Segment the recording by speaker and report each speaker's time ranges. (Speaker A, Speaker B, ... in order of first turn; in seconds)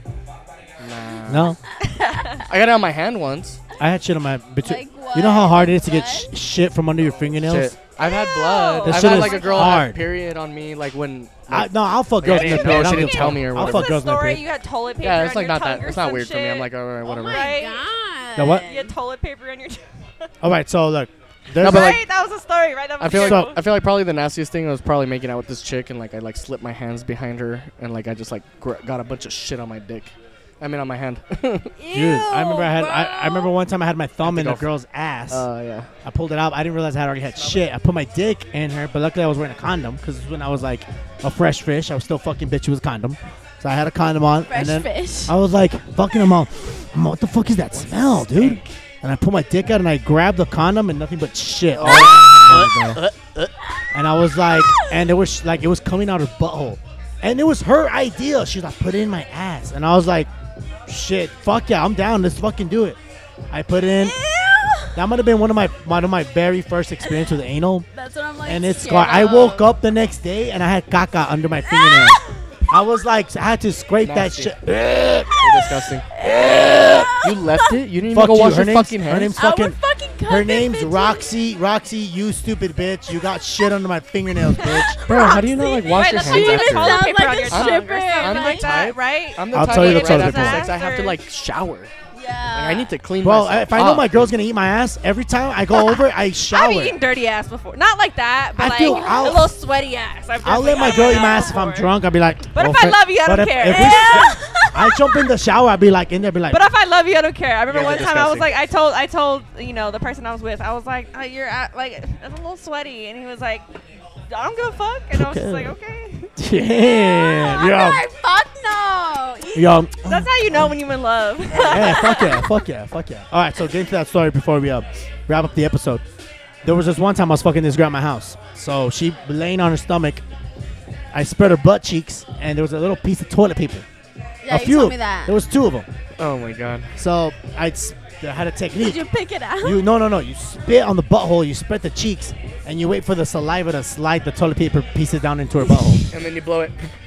Speaker A: 0.8-1.6, 2.4-3.6, 7.0-11.7, 12.2-13.9, 15.0-17.5, 21.6-22.0, 23.0-31.7, 34.2-34.7, 35.3-35.9, 47.7-48.7, 51.7-53.5, 74.0-74.5, 75.4-76.0, 77.2-79.3, 85.0-91.9, 92.5-94.1, 107.7-108.5, 136.2-136.9, 146.1-146.8
Speaker B: 1.3-1.6, 3.8-7.7, 8.8-10.0, 11.5-14.4, 18.4-18.6, 20.4-22.0, 23.2-23.5, 31.9-35.5, 36.0-53.0, 53.9-60.3, 60.9-63.0, 63.5-64.2, 64.9-67.9, 68.5-75.3, 76.2-77.1, 78.1-85.0, 89.5-90.7, 93.2-97.0, 98.6-99.5, 100.4-106.6, 115.1-115.8, 116.4-118.0, 119.5-120.8, 121.5-126.0, 126.6-130.2, 131.1-133.8, 134.5-135.9, 136.9-139.1, 139.6-146.1
Speaker C: 1.9-2.4, 8.0-9.8, 12.3-17.8, 18.6-19.9, 21.6-23.6, 85.9-91.2, 96.5-101.9, 102.5-105.2, 106.5-113.7, 114.3-116.3, 120.0-122.6
Speaker D: 4.6-6.3, 17.1-18.9, 31.8-33.5, 44.5-45.4, 54.3-55.0, 64.0-65.0, 67.9-69.7, 71.7-72.4, 75.3-75.6, 76.1-77.8, 79.3-81.2, 84.6-88.7, 92.1-92.9, 98.8-99.4, 103.6-104.7, 116.7-119.7, 134.4-135.4, 138.7-139.8